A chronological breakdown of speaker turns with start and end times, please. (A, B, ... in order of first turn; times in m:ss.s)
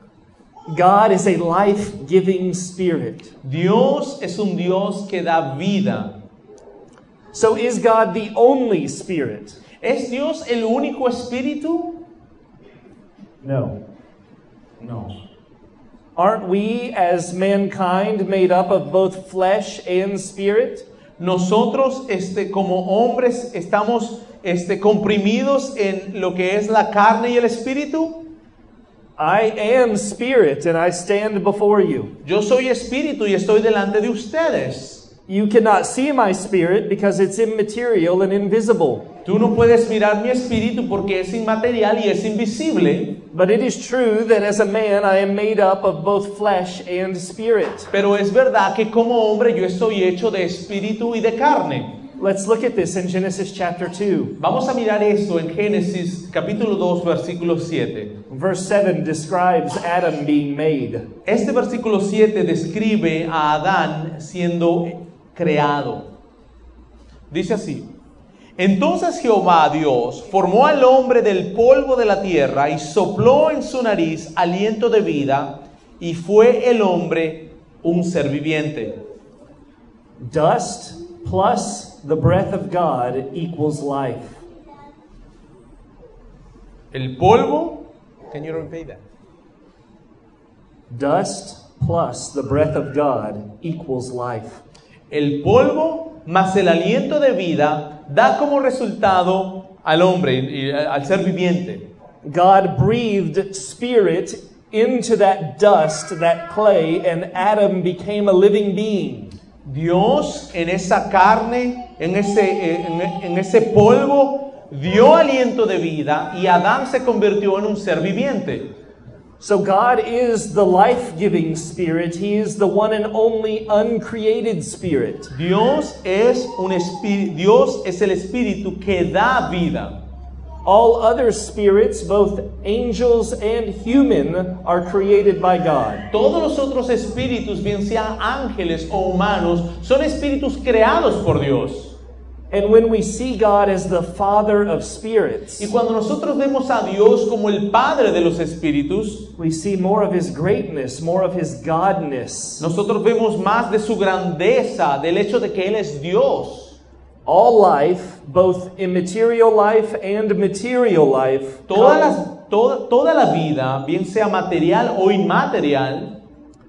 0:00.7-0:03.3 A
0:03.4-0:06.1 B
0:07.3-0:09.6 A
0:09.8-0:12.0 B
0:13.4-0:13.8 A
0:14.8-0:15.2 B
0:16.2-0:20.8 A
0:21.2-0:28.2 B
0:29.2-0:32.1 A
0:32.2-0:35.1 B
0:35.3-0:39.1 A
0:39.2-0:43.2 B
0:43.3-0:47.9 A
0:47.9-0:51.9 B
0:52.2-0:54.3 A
0:54.4-0:58.2 B
0:58.3-1:01.1 A
1:01.2-1:06.1 B
1:07.3-1:07.9 B
1:08.6-1:19.0 B
1:20.2-1:24.4 A
1:26.9-1:29.0 B
1:30.9-1:34.6 A
1:35.1-1:41.8 B
1:42.2-1:49.3 A
1:49.6-1:58.6 B
1:59.4-2:05.3 A
2:05.3-2:10.0 B
2:10.6-2:16.0 A
2:16.1-2:22.0 B
2:22.5-2:25.7 A
2:25.6-2:29.3 B
2:29.4-2:32.7 A
2:32.6-2:36.8 B
2:37.2-2:42.1 A
2:41.7-2:46.1 B